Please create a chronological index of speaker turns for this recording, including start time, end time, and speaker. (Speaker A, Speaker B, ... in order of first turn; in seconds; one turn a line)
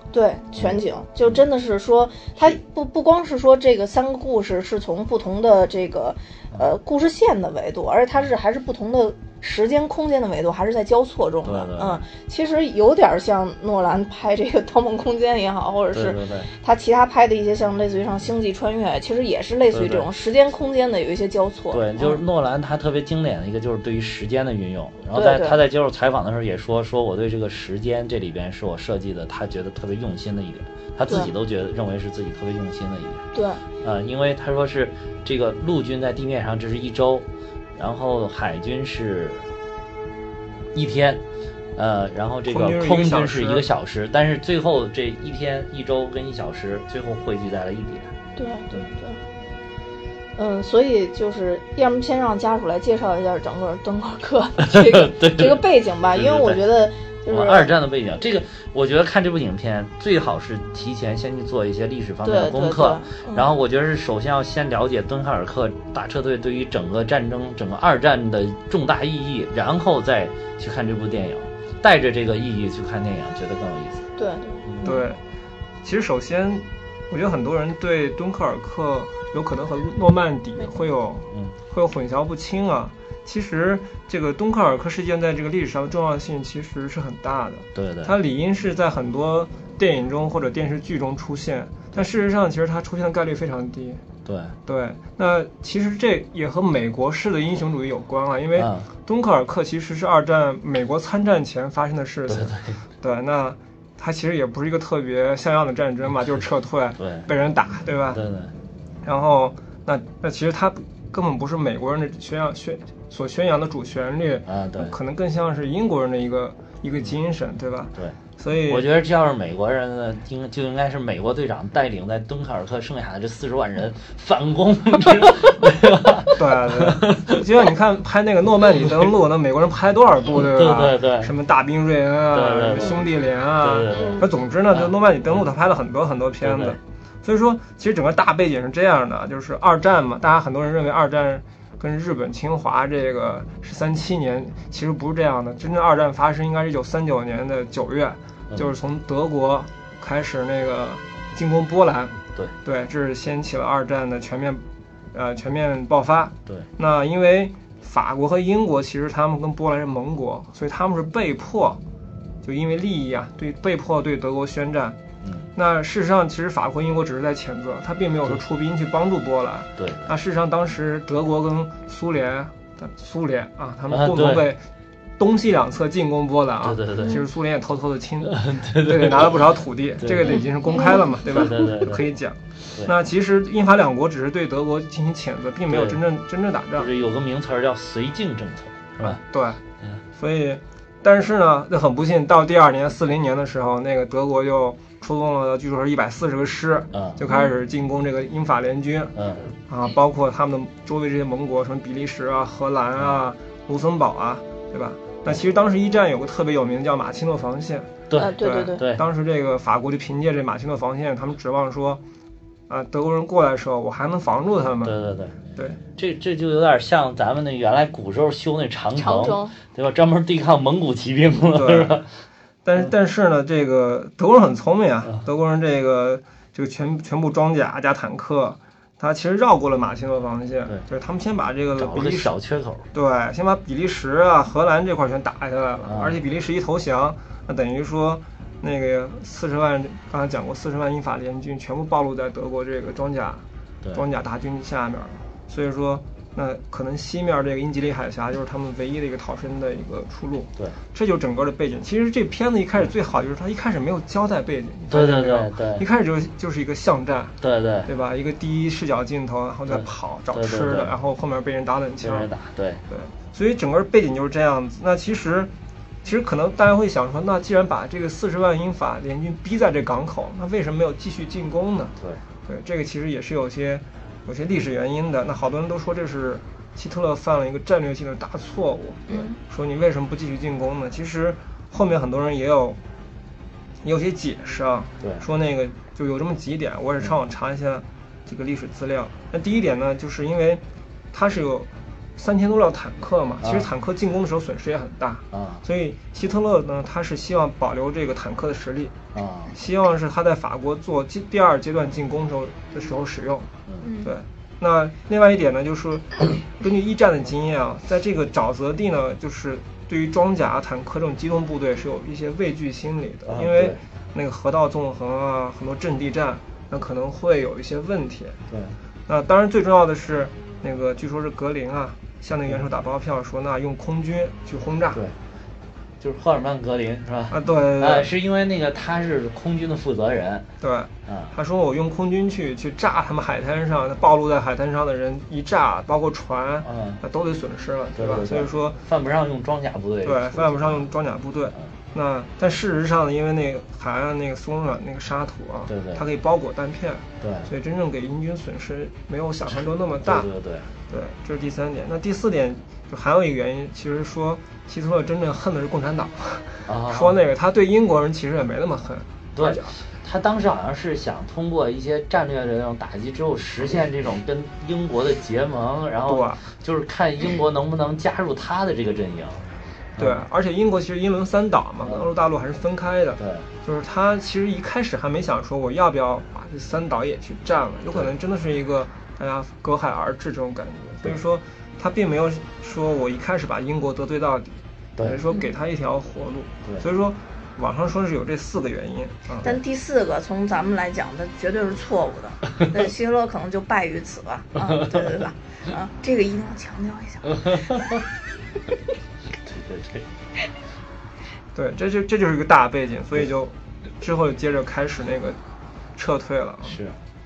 Speaker A: 0.1-22.2
Speaker B: 0.6-1.4
Speaker B: 11.4-12.0
Speaker B: 15.9-16.5
Speaker B: 19.7-20.1
Speaker B: 21.7-33.2
Speaker A: 25.1-25.6
Speaker A: 33.3-33.6
Speaker B: 33.8-39.5
Speaker B: 40.7-41.2
Speaker B: 41.8-48.1
Speaker C: 42.5-43.6
Speaker A: 48.4-49.2
Speaker A: 50.4-57.7
Speaker B: 54.8-56.6
Speaker B: 57.3-74.0
Speaker A: 62.2-63.4
Speaker A: 74.2-75.0
Speaker C: 74.8-75.2
Speaker C: 75.8-94.0
Speaker B: 87.7-88.1
Speaker B: 94.2-94.5
Speaker C: 94.7-108.2
Speaker B: 98.5-98.9
Speaker B: 102.3-102.8
Speaker B: 107.0-107.3
Speaker B: 108.1-108.5
Speaker C: 109.0-118.9
Speaker B: 114.5-114.9
Speaker B: 118.0-127.4
Speaker C: 126.3-161.8
Speaker B: 130.3-131.3
Speaker B: 132.3-134.2
Speaker A: 133.9-134.2
Speaker B: 136.4-136.8
Speaker C: 162.4-165.0
Speaker B: 165.2-165.5
Speaker C: 165.5-174.6
Speaker B: 169.8-170.1
Speaker B: 173.9-174.4
Speaker C: 175.2-186.9
Speaker B: 176.6-177.2
Speaker B: 178.2-182.0
Speaker A: 180.7-181.2
Speaker B: 185.7-186.0
Speaker B: 186.8-189.2
Speaker C: 189.0-189.6
Speaker C: 190.2-199.2
Speaker B: 196.9-197.2
Speaker A: 197.3-197.5
Speaker B: 199.2-199.5
Speaker C: 199.7-212.0
Speaker B: 208.1-209.0
Speaker A: 208.2-208.8
Speaker C: 212.7-214.9
Speaker B: 214.8-215.4
Speaker B: 215.9-222.1
Speaker A: 218.9-219.6
Speaker C: 221.4-222.0
Speaker C: 222.6-232.3
Speaker B: 231.8-232.8
Speaker C: 232.9-262.3
Speaker B: 235.8-236.2
Speaker B: 254.9-255.8
Speaker B: 257.4-257.9
Speaker B: 259.7-260.9
Speaker B: 262.0-262.8
Speaker C: 262.9-265.5
Speaker C: 266.0-271.9
Speaker C: 272.4-282.8
Speaker A: 279.1-279.4
Speaker C: 283.8-290.6
Speaker B: 285.0-285.2
Speaker C: 291.1-298.9
Speaker B: 293.4-293.7
Speaker B: 295.3-295.6
Speaker B: 299.1-299.6
Speaker C: 299.5-303.5
Speaker A: 303.8-304.1
Speaker C: 304.0-318.4
Speaker B: 313.2-313.8
Speaker B: 318.5-318.8
Speaker C: 319.1-325.0
Speaker B: 326.0-330.5
Speaker C: 327.3-328.1
Speaker C: 330.6-338.8
Speaker B: 331.1-331.3
Speaker B: 336.6-337.0
Speaker B: 338.0-340.9
Speaker C: 340.0-350.3
Speaker B: 345.7-346.0
Speaker B: 347.2-347.5
Speaker B: 350.0-350.7
Speaker C: 350.9-359.8
Speaker B: 356.6-357.2
Speaker B: 359.3-370.2
Speaker C: 366.1-366.4
Speaker C: 370.0-389.6
Speaker B: 371.8-372.1
Speaker B: 373.2-373.5
Speaker A: 389.4-397.9
Speaker B: 397.5-398.0
Speaker B: 399.4-400.1
Speaker C: 401.5-405.4
Speaker C: 405.9-406.8
Speaker B: 406.6-407.0